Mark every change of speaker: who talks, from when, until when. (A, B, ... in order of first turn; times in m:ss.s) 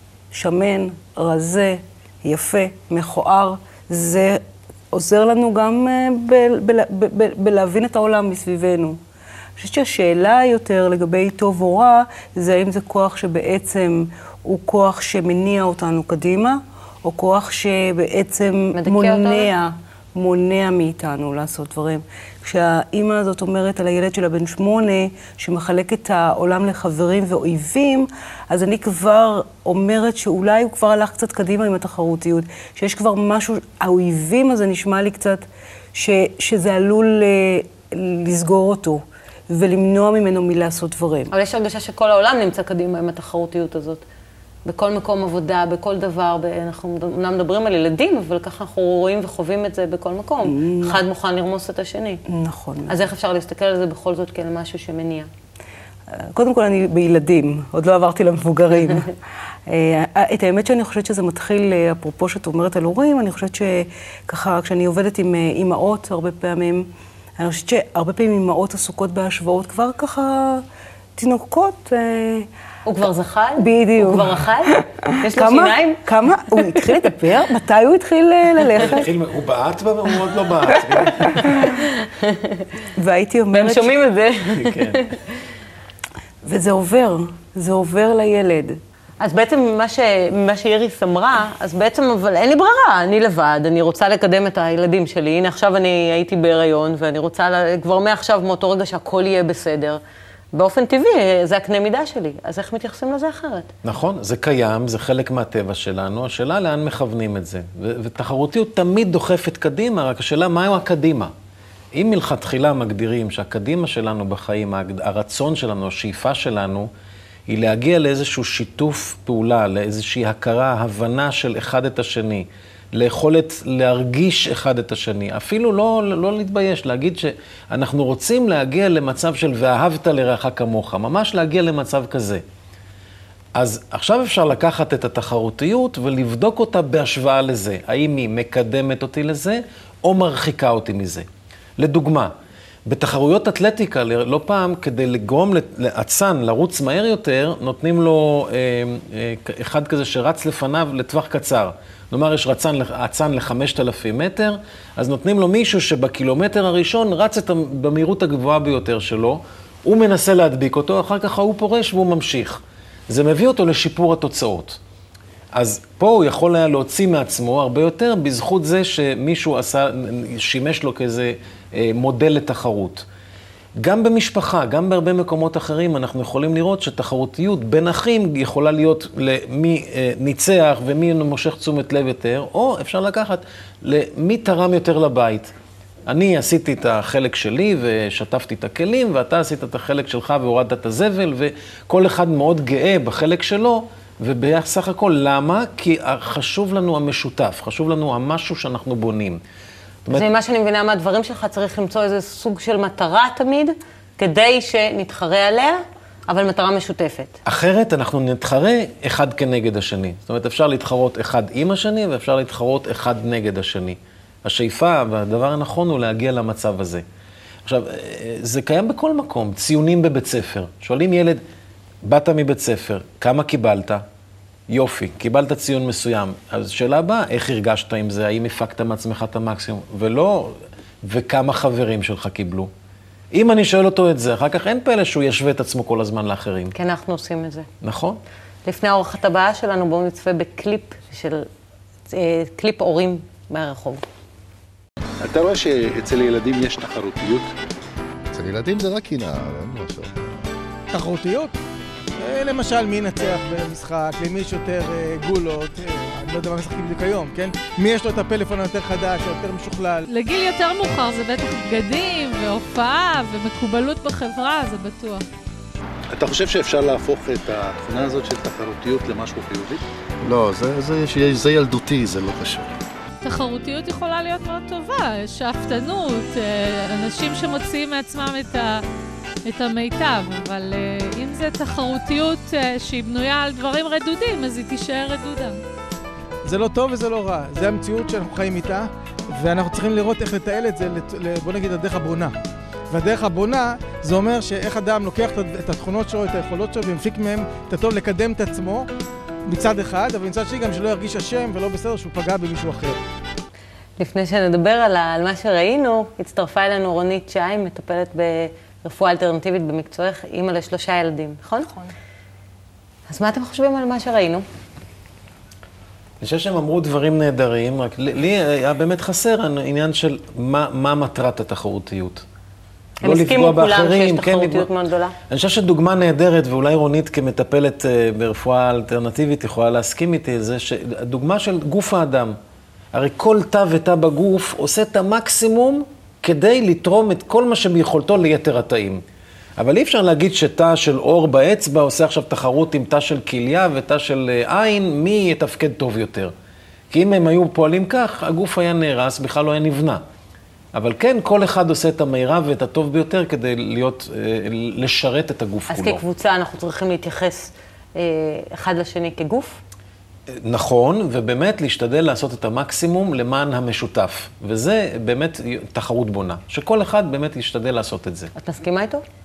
0:00.3-0:09.0 A
0:09.6-0:41.3 A
0:18.7-0:19.5 B
0:41.3-0:44.0 B
0:44.6-0:52.2 B
0:50.4-0:51.0 A
0:52.3-0:53.0 A
0:52.9-0:55.3 B
0:56.1-0:59.1 A
0:59.7-1:10.6 A
1:11.2-1:12.5 A
1:12.8-1:16.0 B
1:13.6-1:19.1 A
1:18.8-1:21.6 C
1:21.5-1:22.7 B
1:23.0-1:23.9 A
1:23.5-1:25.2 B
1:24.5-1:25.0 C
1:26.4-1:28.8 A
1:29.2-1:40.0 B
1:40.5-1:43.7 B
1:43.8-1:51.3 C
1:51.9-1:56.9 C
1:57.5-2:12.4 C
2:13.6-2:21.3 C
2:21.8-2:22.3 C
2:22.9-2:44.8 C
2:45.5-2:53.0 C
2:53.8-3:05.5 C
3:06.1-3:19.4 C
3:20.1-3:27.4 B
3:27.4-3:37.0 C
3:37.7-3:41.4 C
3:42.0-3:44.0 C
3:44.7-3:52.7 C
3:53.3-3:56.7 C
3:56.7-3:57.7 B
3:57.8-3:58.2 C
3:58.6-4:01.5 B
4:02.1-4:04.0 B
4:05.2-4:07.5 D
4:08.3-4:10.4 E
4:10.9-4:11.6 F
4:12.2-4:20.0 F
4:20.1-4:25.2 G
4:26.1-4:29.8 D
4:30.2-4:32.7 E
4:33.2-4:38.8 G
4:39.5-4:45.6 G
4:46.4-4:52.3 F
4:52.9-4:58.9 F
4:59.5-5:03.0 F
5:04.0-5:11.7 B
5:13.1-5:14.4 B
5:16.2-5:22.2 C
5:23.0-5:24.7 C
5:23.0-5:25.2 B
5:25.3-5:32.4 C
5:32.9-5:39.0 C
5:39.6-5:46.3 C
5:46.9-5:50.0 C
5:50.7-5:56.0 C
5:55.7-5:59.6 B
6:00.3-6:08.3 C
6:08.4-6:09.0 B